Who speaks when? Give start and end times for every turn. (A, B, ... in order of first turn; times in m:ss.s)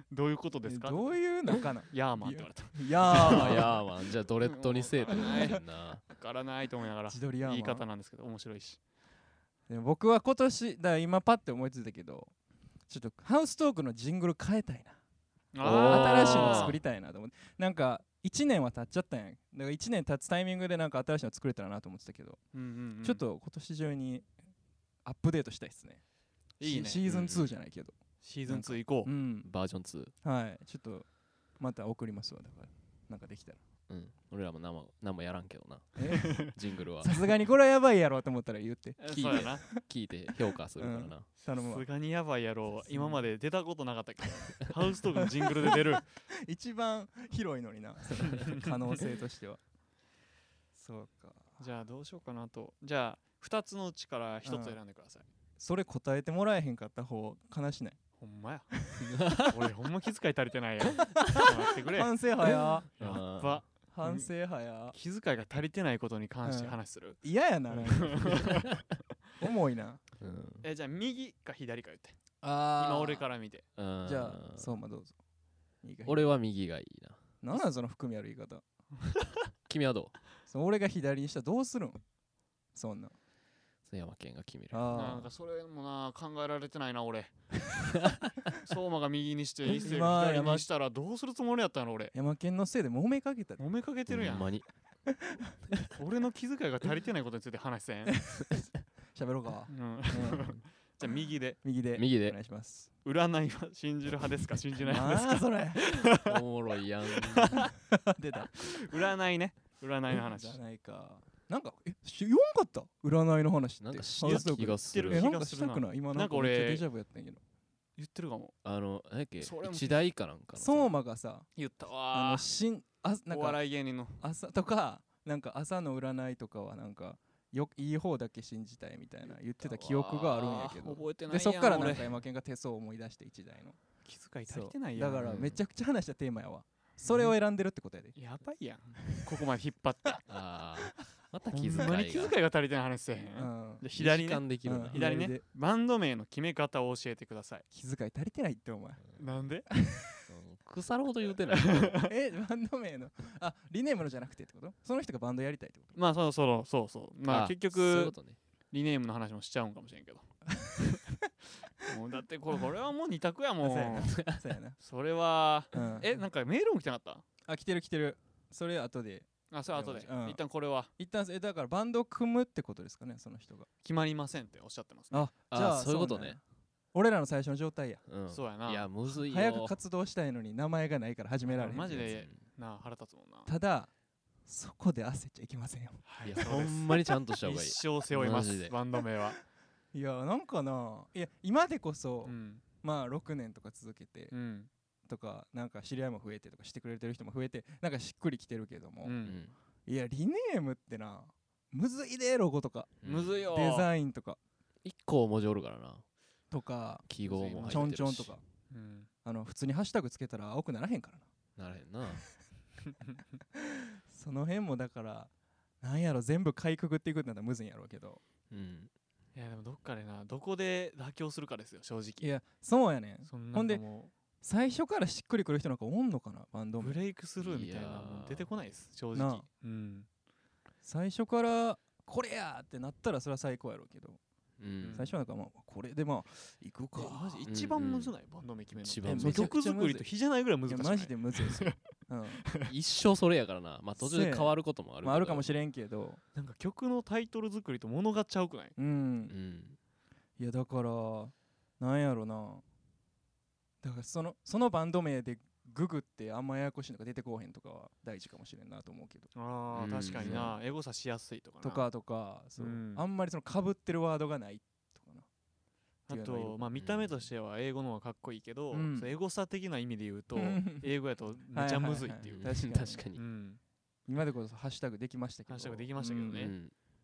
0:00.1-0:01.2 A
0:00.7-0:03.7 B
0:01.9-0:08.8 A
0:03.0-0:06.0 C
0:07.1-0:07.9 B
0:09.7-0:12.3 B
0:12.9-0:15.0 B
0:15.5-0:16.8 A
0:15.6-0:16.8 C
0:15.6-0:22.4 B
0:22.5-0:23.2 A
0:23.0-0:24.3 B
0:25.0-0:26.0 B
0:26.6-0:27.0 A
0:26.6-0:29.5 B
0:27.1-0:27.5 C
0:28.2-0:29.1 A
0:29.4-0:30.1 C
0:30.2-0:33.6 B
0:33.9-0:37.2 C
0:36.0-0:39.8 B
0:36.1-0:36.5 A
0:39.0-0:39.6 A
0:39.1-0:41.3 C
0:40.8-0:41.9 B
0:41.5-0:46.0 A
0:42.8-0:43.2 B
0:45.2-0:49.6 B
0:48.3-0:48.7 A
0:50.8-0:51.6 B
0:51.6-0:55.3 A
0:54.4-0:54.8 B
0:55.6-0:58.0 B
0:58.2-0:58.7 A
0:59.1-0:59.6 C
0:59.3-1:04.3 A
1:01.2-1:02.9 B
1:03.0-1:03.6 C
1:03.9-1:05.0 B
1:04.9-1:08.8 A
1:06.4-1:08.6 B
1:09.4-1:10.0 B
1:10.2-1:10.7 C
1:10.6-1:12.2 A
1:12.4-1:13.3 B
1:12.8-1:13.6 A
1:13.8-1:14.8 C
1:14.0-1:15.2 B
1:15.8-1:16.3 B
1:16.0-1:17.2 C
1:17.4-1:18.6 B
1:19.7-1:20.2 C
1:20.5-1:22.0 B
1:22.7-1:23.2 B
1:23.8-1:24.9 C
1:24.7-1:25.3 B
1:24.9-1:32.1 A
1:29.8-1:30.6 B
1:32.1-1:33.6 B
1:33.6-1:34.5 A
1:34.1-1:34.7 C
1:35.1-1:35.4 B
1:36.0-1:38.2 A
1:38.1-1:38.6 B
1:39.2-1:40.5 B
1:39.7-1:41.6 A
1:41.6-1:42.9 B
1:42.0-1:42.4 C
1:43.0-1:46.4 A
1:44.8-1:45.8 B
1:46.2-1:47.7 C
1:47.1-1:47.7 A
1:47.9-1:48.8 B
1:48.6-1:50.6 A
1:50.3-1:57.4 B
1:53.8-1:55.2 C
1:54.2-1:56.9 A
1:58.0-1:58.5 A
1:58.6-2:00.9 C
1:59.4-2:00.0 A
2:00.6-2:01.5 B
2:01.6-2:02.5 A
2:02.1-2:03.6 B
2:03.3-2:04.2 A
2:04.2-2:13.8 B
2:09.5-2:12.2 A
2:14.0-2:15.4 A
2:14.5-2:18.2 B
2:15.2-2:15.6 C
2:17.1-2:17.4 A
2:18.2-2:20.2 A
2:19.0-2:19.4 B
2:20.3-2:22.4 C
2:21.5-2:27.7 A
2:23.3-2:23.8 B
2:23.9-2:25.0 C
2:24.6-2:25.4 B
2:27.7-2:29.0 B
2:29.2-2:29.7 A
2:29.7-2:30.1 B
2:30.3-2:32.0 C
2:31.5-2:32.1 A
2:32.0-2:36.0 B
2:36.0-2:38.2 A
2:37.3-2:38.4 C
2:38.7-2:41.0 A
2:40.5-2:40.8 B
2:41.8-2:47.2 A
2:43.6-2:44.8 B
2:45.7-2:46.1 B
2:47.5-2:50.4 B
2:49.5-2:50.9 A
2:51.0-2:53.7 B
2:53.8-2:55.3 A
2:55.1-2:56.4 B
2:55.5-2:56.4 C
2:56.9-2:58.0 B
2:58.1-2:59.8 C
2:58.3-2:58.9 A
2:59.1-3:02.1 B
3:01.5-3:03.5 A
3:01.7-3:02.4 C
3:03.5-3:03.9 B
3:04.5-3:06.0 B
3:06.1-3:09.4 A
3:06.2-3:08.8 C
3:09.9-3:14.3 B
3:12.2-3:12.6 A
3:14.3-3:14.7 A
3:15.1-3:19.2 B
3:19.0-3:19.4 A
3:19.2-3:19.6 C
3:19.9-3:22.9 B
3:23.0-3:23.5 C
3:23.0-3:23.9 A
3:23.5-3:24.4 B
3:24.8-3:26.0 C
3:26.5-3:27.1 B
3:27.1-3:28.4 C
3:27.2-3:27.8 A
3:27.6-3:28.4 B
3:28.7-3:29.1 A
3:29.2-3:31.3 B
3:31.6-3:32.3 C
3:33.6-3:35.3 B
3:35.8-3:38.2 B
3:38.5-3:38.9 C
3:39.4-3:42.3 A
3:42.2-3:43.8 B
3:43.3-3:44.1 A
3:44.4-3:47.0 B
3:46.8-3:50.1 A
3:47.4-3:48.5 C
3:49.2-3:49.5 B
3:50.8-3:54.2 B
3:54.6-3:55.0 C
3:54.8-3:55.2 A
3:54.9-3:57.5 B
3:57.0-4:01.8 A
3:57.4-3:58.1 C
3:58.8-3:59.5 C
3:59.0-4:00.1 B
4:00.7-4:02.5 B
4:02.4-4:02.7 A
4:02.7-4:05.5 C
4:04.0-4:06.2 B
4:06.4-4:08.7 A
4:08.8-4:09.3 B
4:09.3-4:09.8 C
4:10.4-4:12.6 B
4:13.8-4:19.3 B
4:19.3-4:21.9 A
4:19.7-4:20.6 C
4:20.2-4:20.5 B
4:21.6-4:25.3 B
4:22.6-4:23.0 A
4:26.1-4:32.5 A
4:26.1-4:26.7 B
4:26.8-4:27.3 C
4:28.7-4:29.2 B
4:30.4-4:30.9 B
4:31.5-4:33.0 B
4:32.2-4:33.2 C
4:33.1-4:33.6 A
4:34.1-4:36.4 B
4:35.5-4:36.6 A
4:36.3-4:36.7 C